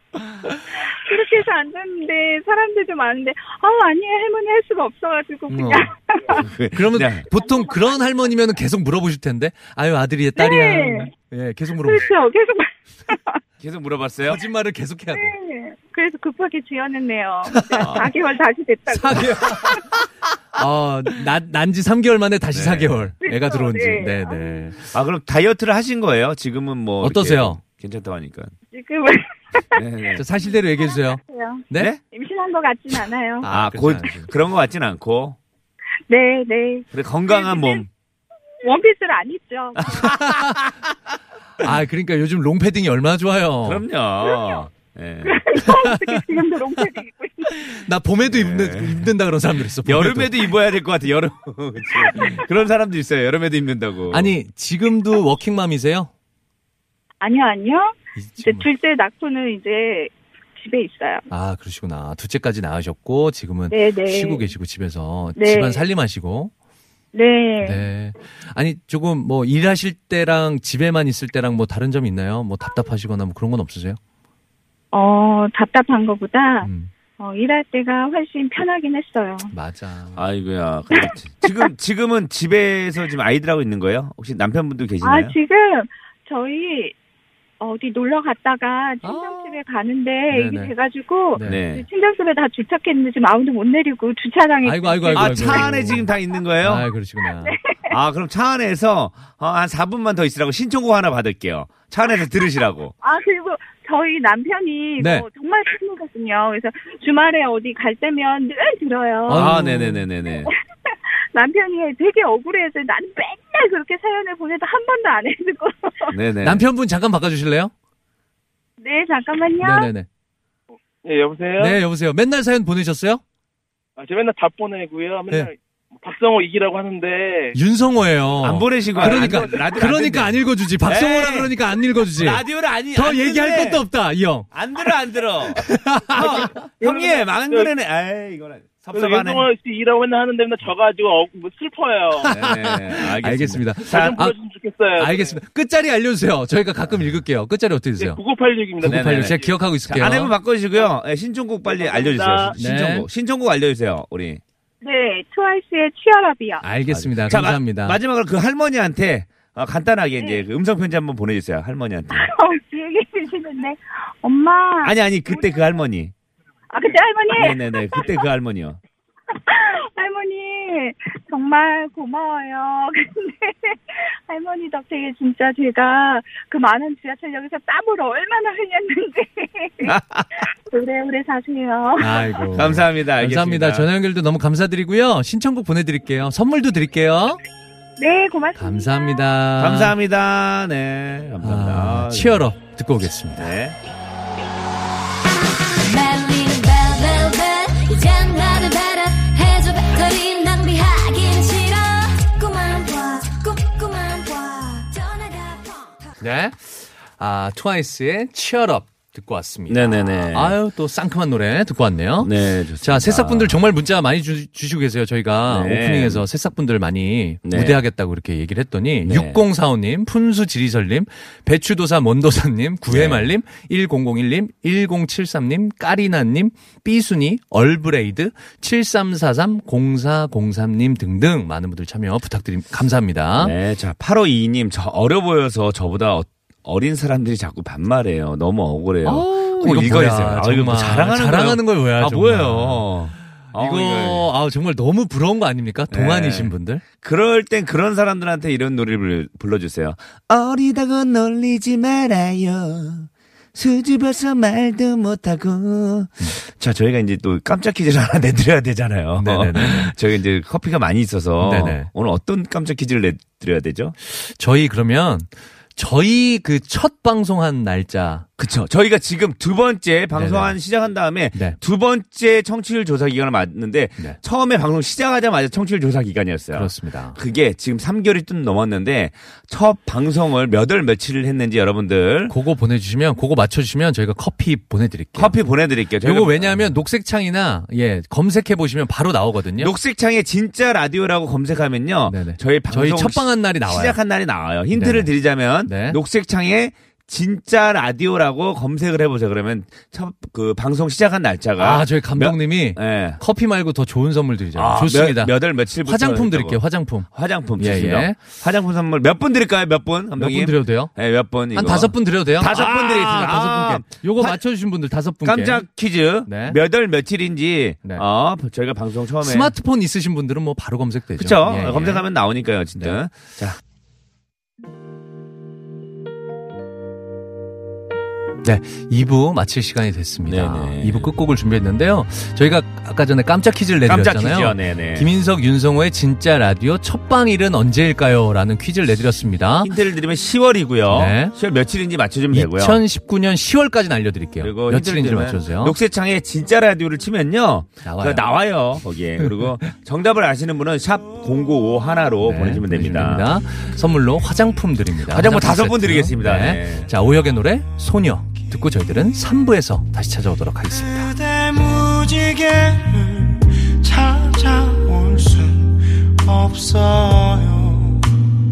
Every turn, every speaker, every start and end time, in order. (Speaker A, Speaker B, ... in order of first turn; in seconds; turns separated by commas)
Speaker A: 0.7-6.5, Speaker B: 5.5-5.9, Speaker C: 6.3-7.3, Speaker B: 6.7-12.1, Speaker A: 7.3-7.9, Speaker A: 10.4-11.1, Speaker A: 11.8-13.4, Speaker C: 13.6-14.4, Speaker B: 14.3-15.3, Speaker A: 15.1-19.8, Speaker B: 17.5-18.1, Speaker C: 17.8-18.1, Speaker B: 18.9-20.0, Speaker B: 20.6-24.8, Speaker C: 22.5-23.1, Speaker A: 23.2-24.6, Speaker C: 24.9-28.5, Speaker B: 27.0-27.6, Speaker A: 28.7-29.9, Speaker C: 29.7-30.2, Speaker B: 30.1-31.9, Speaker A: 30.8-33.5, Speaker C: 31.8-32.0, Speaker B: 33.4-34.3, Speaker C: 33.5-35.4, Speaker A: 36.1-37.8, Speaker C: 36.9-37.9, Speaker A: 38.6-40.1, Speaker C: 39.8-40.0, Speaker B: 39.9-40.6, Speaker B: 41.6-43.8, Speaker C: 43.6-45.6, Speaker A: 44.2-44.6, Speaker A: 45.2-47.6, Speaker B: 45.6-46.2, Speaker B: 47.5-50.4, Speaker C: 48.3-49.1, Speaker C: 49.8-54.3, Speaker B: 54.1-56.1, Speaker A: 57.2-61.3, Speaker B: 58.2-58.7, Speaker B: 61.3-66.5, Speaker A: 63.7-64.4, Speaker A: 65.4-65.8, Speaker A: 67.1-67.8, Speaker B: 67.6-74.0, Speaker A: 74.9-79.5, Speaker B: 76.6-76.9, Speaker B: 79.5-80.2, Speaker C: 80.2-85.3, Speaker A: 81.0-81.7, Speaker A: 85.0-87.0, Speaker A: 87.6-95.7, Speaker B: 89.0-89.5, Speaker B: 90.3-90.7, Speaker B: 91.3-91.6, Speaker C: 91.4-91.9, Speaker B: 94.6-96.1, Speaker C: 95.1-96.9, Speaker B: 96.6-97.6, Speaker A: 97.4-98.0, Speaker C: 97.9-102.9, Speaker A: 103.0-109.5, Speaker B: 105.0-105.3, Speaker B: 109.3-110.1, Speaker C: 109.3-110.5, Speaker A: 110.2-116.2, Speaker C: 116.1-116.6, Speaker B: 116.4-117.7, Speaker A: 118.8-119.9, Speaker B: 119.6-120.1, Speaker D: 121.0-121.8, Speaker B: 121.6-123.2, Speaker D: 124.0-127.6, Speaker B: 127.5-134.5, Speaker C: 128.4-131.6, Speaker D: 128.9-129.7, Speaker C: 132.1-133.8, Speaker C: 134.5-139.5, Speaker B: 135.6-136.6, Speaker D: 136.8-137.7, Speaker D: 138.9-142.3, Speaker B: 142.2-144.3, Speaker C: 142.3-144.2, Speaker D: 143.9-145.4, Speaker B: 145.0-148.2, Speaker D: 148.0-149.6, Speaker B: 148.8-150.3, Speaker C: 148.8-154.4, Speaker D: 151.7-152.6, Speaker B: 152.6-153.1, Speaker A: 154.8-156.6, Speaker B: 156.6-158.0, Speaker C: 156.9-162.3, Speaker A: 162.2-165.6, Speaker C: 164.8-166.1, Speaker A: 166.7-168.2, Speaker C: 167.3-168.8, Speaker A: 169.3-182.5, Speaker C: 179.8-180.5, Speaker B: 182.0-187.4, Speaker C: 182.5-183.9, Speaker A: 188.0-189.3, Speaker B: 188.6-190.0, Speaker C: 189.6-192.4, Speaker B: 191.4-193.5, Speaker C: 193.4-193.8, Speaker E: 195.6-206.0, Speaker B: 206.2-233.5, Speaker C: 209.7-210.6, Speaker C: 212.2-213.6, Speaker C: 215.5-216.2, Speaker C: 217.4-217.8, Speaker C: 219.0-219.4, Speaker C: 222.9-223.3, Speaker C: 233.4-244.3, Speaker B: 239.0-242.9, Speaker B: 243.5-246.8, Speaker C: 245.9-264.0, Speaker B: 259.2-259.9, Speaker B: 261.4-261.9, Speaker B: 264.0-268.3, Speaker C: 268.4-282.4, Speaker B: 270.1-270.6, Speaker B: 271.3-271.6, Speaker B: 276.5-277.2, Speaker B: 282.3-285.4, Speaker C: 285.1-286.7, Speaker B: 286.0-289.7, Speaker C: 289.6-303.2, Speaker B: 292.1-294.0, Speaker B: 294.7-295.1, Speaker B: 295.6-296.0, Speaker B: 301.6-308.2, Speaker C: 304.6-314.4, Speaker B: 310.2-310.9, Speaker B: 311.5-315.6, Speaker C: 315.2-319.5, Speaker B: 316.3-316.6, Speaker B: 319.2-322.0, Speaker C: 321.2-323.6, Speaker B: 328.4-339.7, Speaker C: 330.2-331.1, Speaker C: 333.9-335.1, Speaker C: 339.6-342.8, Speaker B: 340.9-341.4, Speaker B: 342.3-345.8, Speaker C: 344.4-353.3, Speaker B: 347.8-348.3, Speaker B: 349.2-349.5, Speaker B: 352.2-361.1, Speaker C: 355.1-356.9, Speaker F: 360.7-368.1